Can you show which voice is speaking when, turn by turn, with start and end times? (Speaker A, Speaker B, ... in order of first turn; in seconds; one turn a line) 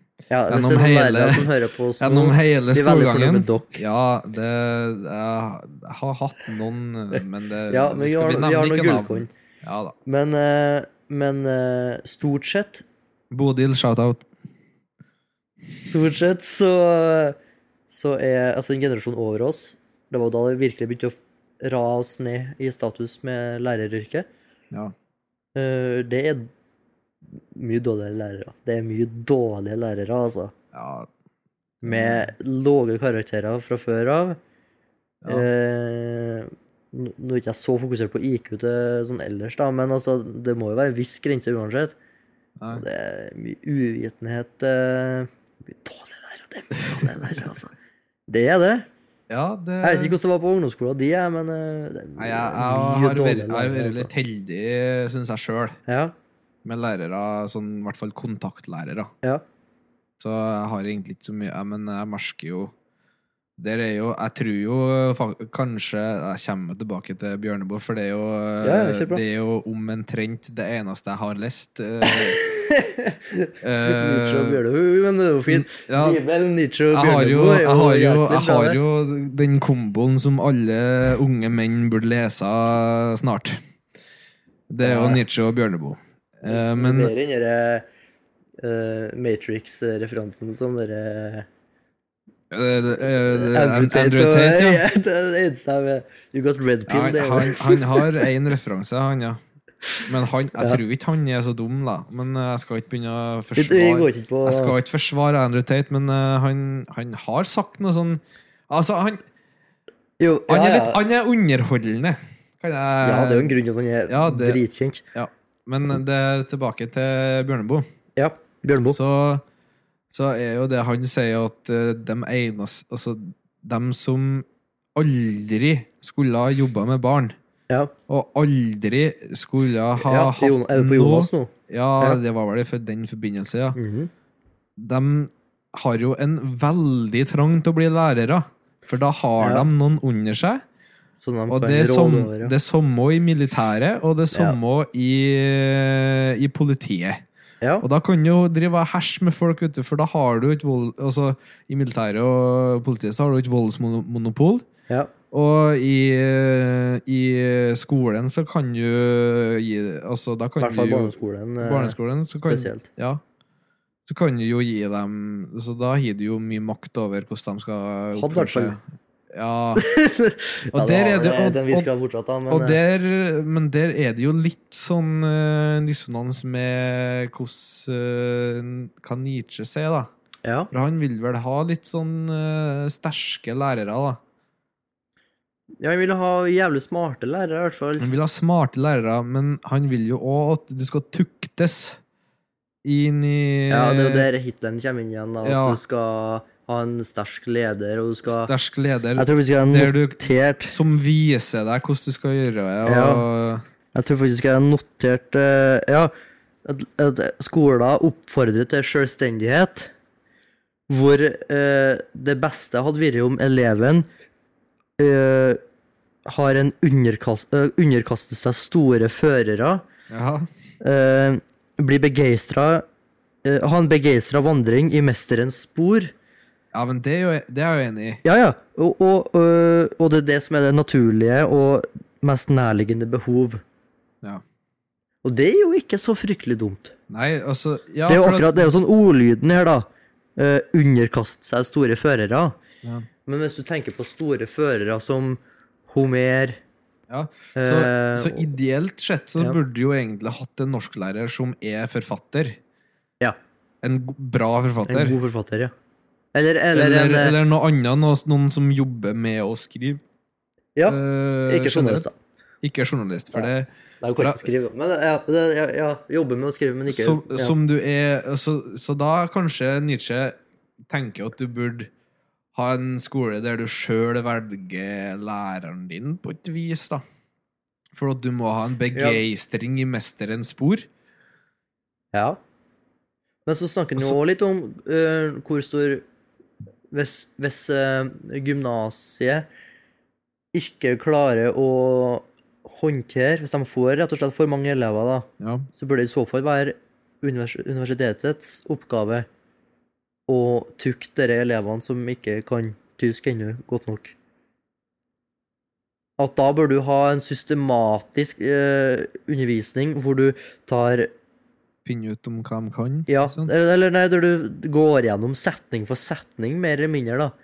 Speaker A: 0.3-3.8
Speaker B: 0.5-9.9
Speaker A: 7.2-9.3
Speaker A: 10.1-12.8
Speaker B: 13.3-14.2
Speaker A: 15.8-17.4
Speaker A: 17.9-24.3
Speaker A: 25.5-26.5
Speaker A: 27.3-30.5
Speaker B: 30.7-31.1
Speaker B: 31.8-32.3
Speaker A: 31.8-34.4
Speaker B: 35.2-35.5
Speaker A: 35.3-42.0
Speaker A: 42.7-47.7
Speaker B: 46.8-47.2
Speaker A: 48.3-48.9
Speaker B: 49.3-50.1
Speaker A: 49.8-54.1
Speaker B: 52.2-55.8
Speaker A: 55.9-56.1
Speaker B: 56.6-59.1
Speaker B: 60.2-62.7
Speaker B: 63.6-72.4
Speaker A: 68.6-69.2
Speaker A: 72.0-78.8
Speaker B: 73.6-74.6
Speaker B: 75.5-76.2
Speaker B: 76.9-83.6
Speaker B: 84.7-87.1
Speaker A: 84.8-85.2
Speaker A: 86.5-87.8
Speaker A: 88.6-91.5
Speaker B: 92.5-94.8
Speaker A: 93.0-98.3
Speaker B: 96.9-99.4
Speaker B: 100.0-109.2
Speaker A: 103.5-104.8
Speaker A: 110.2-111.0
Speaker B: 110.5-113.5
Speaker A: 113.0-115.0
Speaker B: 114.1-114.6
Speaker B: 115.1-117.8
Speaker A: 118.2-119.0
Speaker B: 118.8-119.4
Speaker B: 120.1-127.3
Speaker B: 128.1-133.8
Speaker A: 130.0-132.2
Speaker A: 133.8-134.1
Speaker B: 134.8-140.6
Speaker A: 139.4-139.7
Speaker A: 141.2-142.5
Speaker B: 141.5-147.2
Speaker A: 144.3-144.6
Speaker B: 147.8-154.7
Speaker B: 155.3-163.2
Speaker A: 160.6-162.9
Speaker B: 164.1-168.8
Speaker A: 168.2-168.7
Speaker B: 169.3-169.8
Speaker A: 169.8-172.8
Speaker B: 170.7-171.9
Speaker B: 172.5-180.1
Speaker A: 180.4-180.7
Speaker B: 180.7-184.2
Speaker A: 185.8-188.1
Speaker B: 188.0-192.0
Speaker B: 192.8-194.3
Speaker A: 193.7-198.5
Speaker B: 195.4-195.8
Speaker B: 198.3-203.6
Speaker A: 199.2-200.7
Speaker A: 202.8-203.2
Speaker A: 203.9-206.1
Speaker A: 206.6-209.9
Speaker A: 210.9-214.1
Speaker A: 215.0-215.6
Speaker A: 216.2-219.8
Speaker B: 220.1-220.5
Speaker A: 220.8-222.8
Speaker A: 223.4-226.1
Speaker B: 226.7-228.2
Speaker A: 228.2-233.6
Speaker A: 235.2-236.9
Speaker B: 237.1-238.7
Speaker A: 238.1-242.6
Speaker A: 243.2-246.6
Speaker B: 247.1-252.6
Speaker A: 247.6-248.5
Speaker B: 253.8-255.2
Speaker A: 254.9-255.7
Speaker A: 256.3-257.4
Speaker B: 256.7-260.0
Speaker A: 260.8-262.1
Speaker B: 260.9-262.1
Speaker B: 262.6-264.4
Speaker A: 264.0-267.6
Speaker B: 266.9-270.4
Speaker B: 270.9-271.9
Speaker B: 272.5-277.0
Speaker B: 277.9-280.9
Speaker A: 278.9-279.2
Speaker A: 282.1-282.4
Speaker A: 283.4-286.0
Speaker A: 286.9-289.4
Speaker A: 290.5-299.3
Speaker B: 295.4-295.7
Speaker A: 300.3-304.1
Speaker A: 306.2-311.1
Speaker B: 311.8-313.5
Speaker A: 313.1-317.3